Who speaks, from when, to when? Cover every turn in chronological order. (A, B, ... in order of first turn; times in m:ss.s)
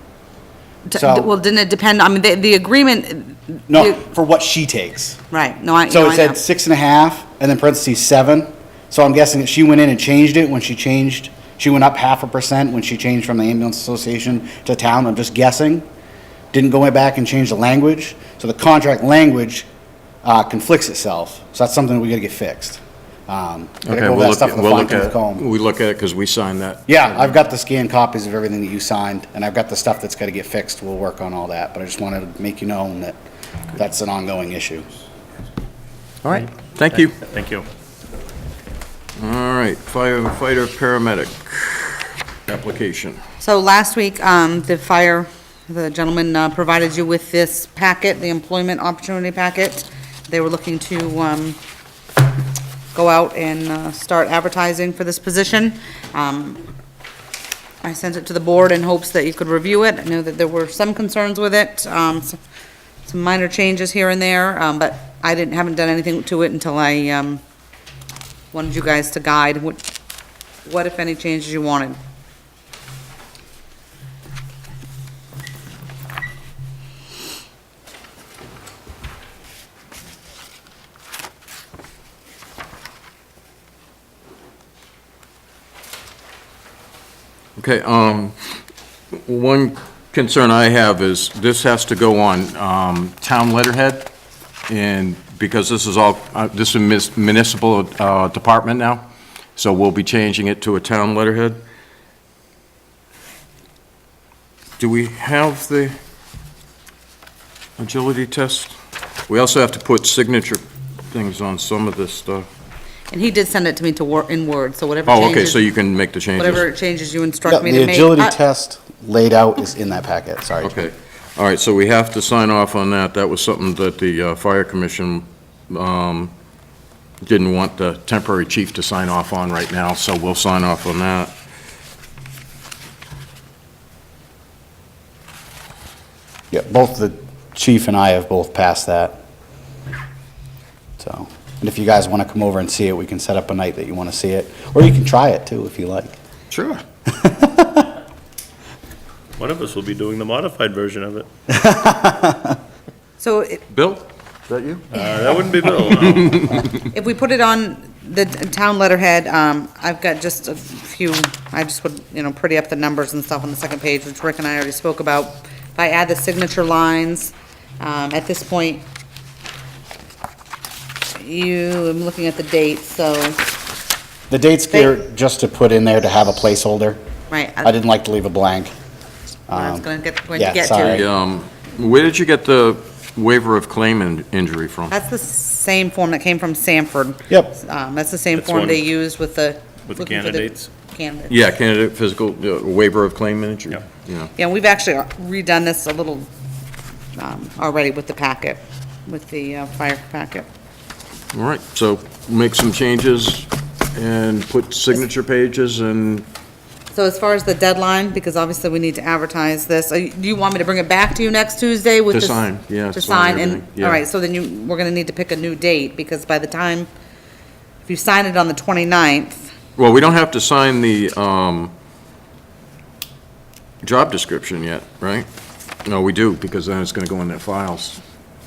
0:00.8-0:04.0 A
0:00.9-0:01.3 B
0:03.7-0:05.2 B
0:05.3-0:06.4 A
0:05.9-0:15.8 B
0:16.5-0:19.7 B
0:20.2-0:25.4 B
0:23.8-0:26.8 C
0:26.9-0:33.2 B
0:33.8-0:34.9 B
0:36.2-0:37.2 C
0:37.1-0:37.6 D
0:39.2-0:43.2 C
0:43.4-0:51.6 A
0:52.9-0:56.6 A
0:57.8-1:02.4 A
1:03.0-1:07.4 A
1:08.5-1:09.8 A
1:10.6-1:12.0 A
1:27.6-1:28.4 C
1:29.1-1:34.1 C
1:34.7-1:41.6 C
1:44.8-1:45.9 C
1:47.8-1:48.7 C
1:49.3-1:52.5 C
1:53.1-1:55.6 A
1:55.0-1:56.7 C
1:56.4-1:58.4 A
1:57.4-2:00.8 B
2:00.6-2:06.3 C
2:07.2-2:11.3 C
2:16.5-2:19.2 B
2:21.0-2:26.2 B
2:26.5-2:26.8 C
2:27.0-2:27.9 B
2:29.4-2:31.3 D
2:31.5-2:32.6 B
2:33.2-2:33.6 A
2:33.7-2:34.8 C
2:34.9-2:36.6 D
2:36.8-2:48.8 A
2:51.1-2:53.4 A
2:54.3-2:57.0 B
2:57.3-2:57.7 A
2:57.6-2:58.7 B
2:59.5-3:01.1 B
2:59.5-3:01.0 A
3:00.9-3:04.9 C
3:04.9-3:11.4 A
3:07.3-3:07.5 B
3:08.3-3:08.8 D
3:09.8-3:10.7 D
3:11.3-3:14.3 C
3:14.4-3:16.3 A
3:17.1-3:20.4 A
3:21.3-3:26.2 C
3:26.9-3:36.9 A
3:32.1-3:34.0 C
3:37.8-3:39.4 A
3:39.8-3:41.7 C
3:43.8-3:45.3 C
3:45.8-3:48.0 C